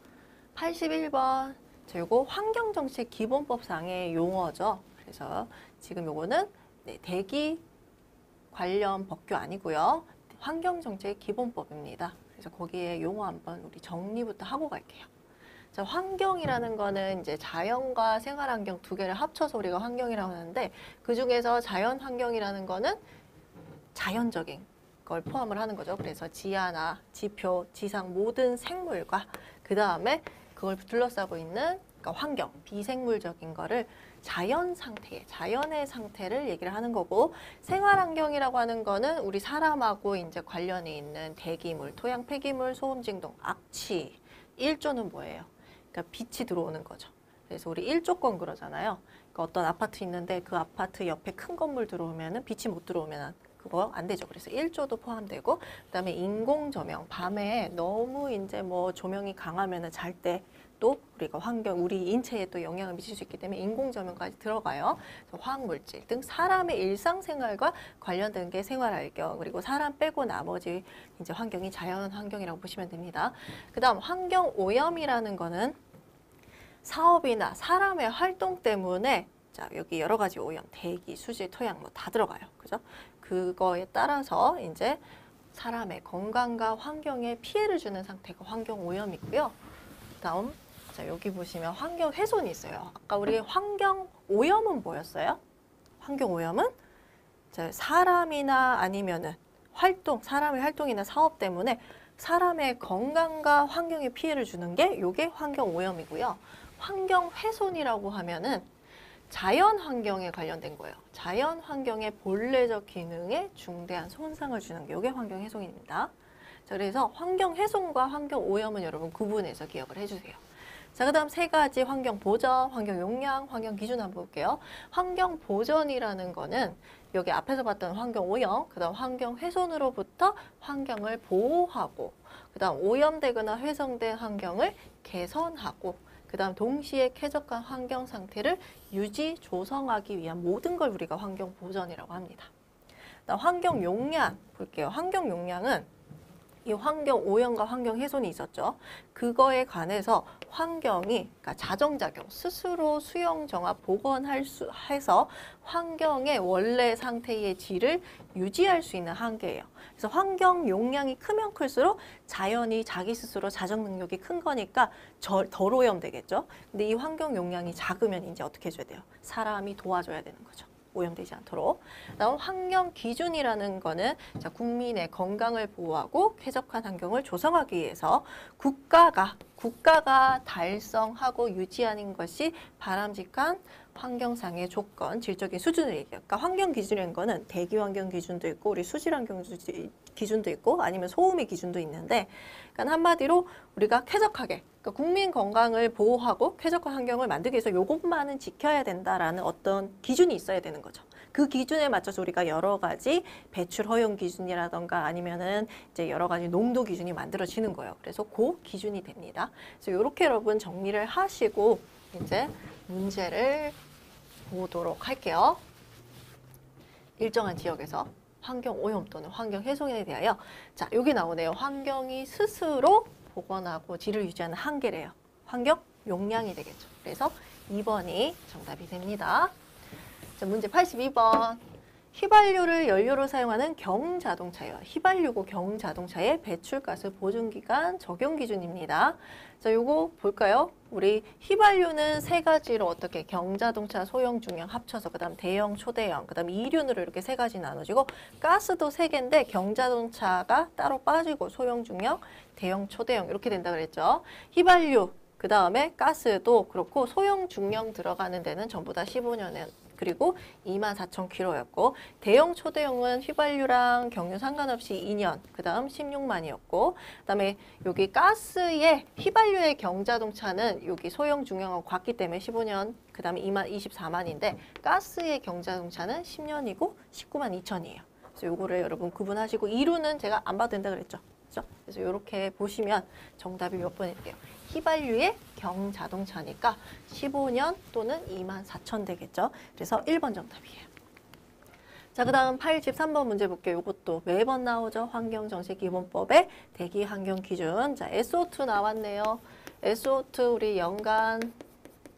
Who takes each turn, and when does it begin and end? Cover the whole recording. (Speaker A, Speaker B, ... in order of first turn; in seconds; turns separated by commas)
Speaker A: 0.5-7.6, Speaker A: 8.5-15.1, Speaker A: 15.7-23.0, Speaker A: 23.9-75.8, Speaker A: 76.8-89.5, Speaker A: 90.2-95.4, Speaker A: 96.0-96.8, Speaker A: 97.5-108.7, Speaker A: 109.3-116.1, Speaker A: 116.7-120.4, Speaker A: 120.9-142.5, Speaker A: 143.3-145.9, Speaker A: 146.6-213.8, Speaker A: 214.5-215.6, Speaker A: 217.2-229.5, Speaker A: 230.4-231.6, Speaker A: 232.1-290.9, Speaker A: 292.1-301.6